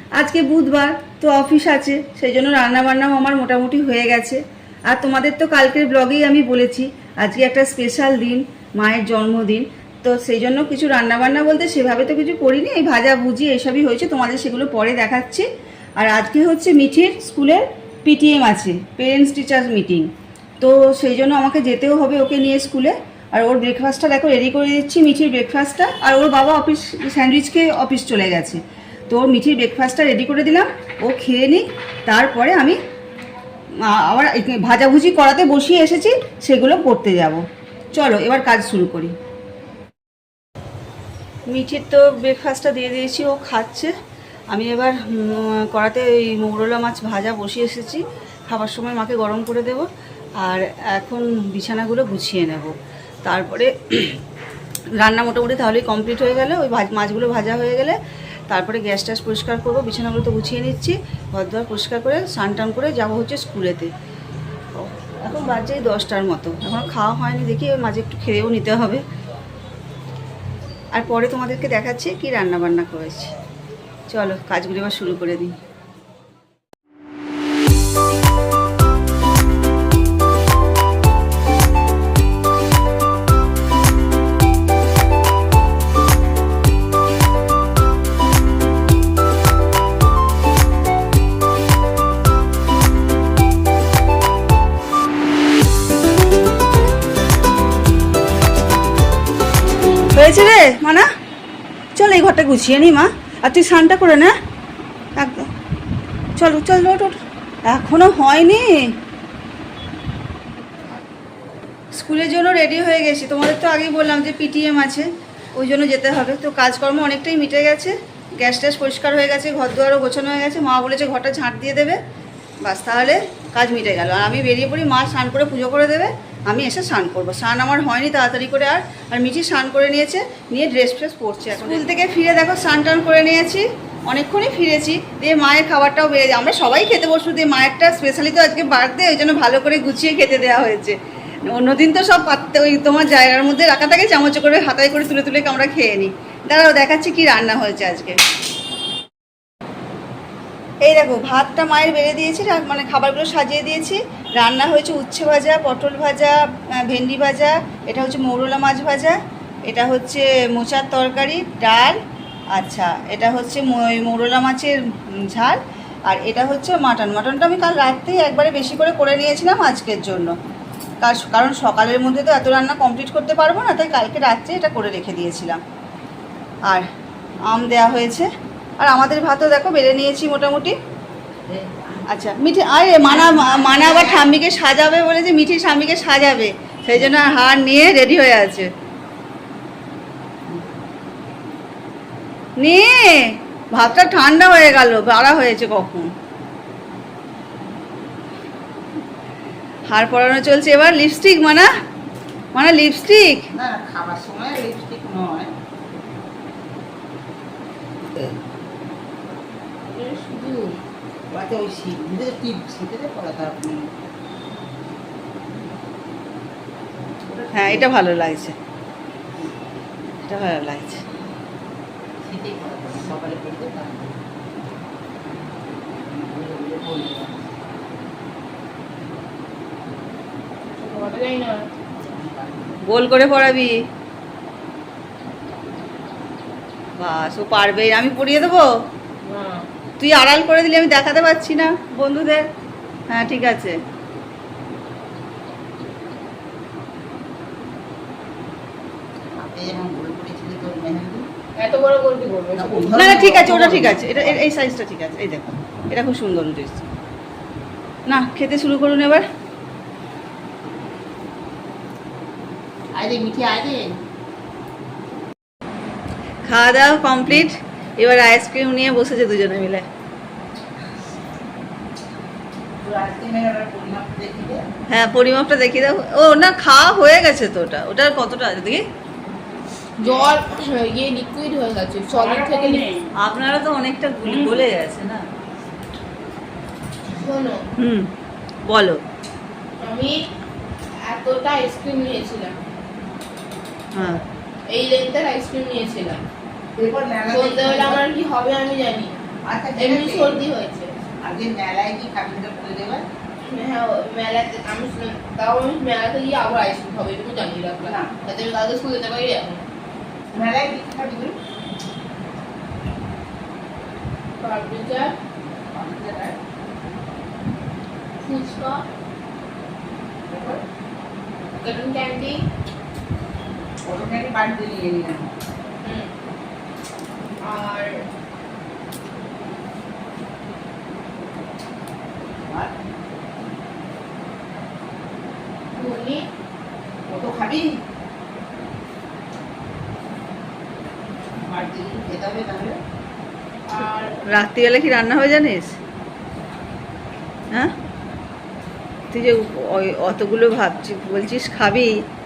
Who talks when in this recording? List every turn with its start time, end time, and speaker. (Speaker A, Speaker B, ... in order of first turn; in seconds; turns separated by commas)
Speaker A: 0.2-15.5, Speaker A: 16.0-20.1, Speaker A: 20.6-32.8, Speaker A: 33.8-37.4, Speaker A: 38.0-39.1, Speaker A: 41.5-43.9, Speaker A: 44.5-49.9, Speaker A: 50.4-52.7, Speaker A: 53.2-54.2, Speaker A: 55.0-58.0, Speaker A: 58.5-63.9, Speaker A: 64.8-69.0, Speaker A: 70.9-73.3, Speaker A: 74.1-75.6, Speaker A: 100.1-101.1, Speaker A: 102.0-104.3, Speaker A: 105.2-105.5, Speaker A: 106.4-108.9, Speaker A: 112.0-122.0, Speaker A: 122.6-141.0, Speaker A: 141.5-148.2, Speaker A: 150.8-162.0, Speaker A: 162.6-170.3, Speaker A: 171.0-175.6, Speaker A: 177.5-178.3, Speaker A: 178.8-180.7, Speaker B: 181.5-182.0, Speaker A: 182.1-188.7, Speaker C: 183.8-184.2, Speaker A: 192.6-196.1, Speaker A: 199.9-201.7, Speaker A: 202.6-203.5, Speaker B: 203.5-205.5, Speaker C: 209.9-210.8, Speaker B: 211.3-214.0, Speaker B: 217.2-217.9, Speaker A: 217.5-218.6, Speaker A: 220.2-221.0, Speaker B: 222.2-224.2, Speaker B: 225.9-227.5, Speaker C: 230.8-231.6, Speaker B: 232.0-232.8, Speaker A: 232.8-233.8, Speaker A: 237.0-238.7, Speaker C: 239.2-239.7, Speaker A: 240.0-242.4, Speaker A: 243.1-243.8, Speaker B: 249.3-251.3, Speaker C: 251.6-253.4, Speaker B: 252.6-254.4, Speaker A: 252.9-256.8, Speaker A: 258.1-259.2, Speaker B: 262.9-264.0, Speaker A: 266.5-269.9, Speaker B: 272.8-274.6, Speaker A: 274.9-278.8, Speaker C: 280.0-282.9, Speaker B: 282.1-283.0, Speaker A: 283.2-285.2, Speaker B: 284.3-284.6, Speaker C: 287.2-287.6, Speaker A: 287.8-288.1, Speaker A: 288.7-289.0, Speaker C: 289.8-290.2, Speaker C: 291.1-292.6, Speaker A: 293.9-294.2, Speaker C: 294.7-296.2, Speaker B: 296.8-298.1, Speaker C: 297.3-299.2, Speaker B: 299.4-300.4, Speaker C: 299.8-300.9, Speaker B: 301.2-303.1, Speaker C: 303.4-309.6, Speaker B: 307.8-308.1, Speaker B: 310.3-311.4, Speaker C: 314.4-315.1, Speaker B: 315.7-316.4, Speaker C: 318.2-318.9, Speaker B: 320.3-320.6, Speaker C: 321.6-322.4, Speaker B: 323.9-325.3, Speaker C: 325.8-326.1, Speaker C: 327.4-328.0, Speaker B: 332.4-332.7, Speaker C: 335.8-336.2, Speaker B: 337.1-337.7, Speaker B: 341.4-342.8, Speaker C: 343.7-344.1, Speaker A: 344.3-345.8, Speaker A: 349.1-351.9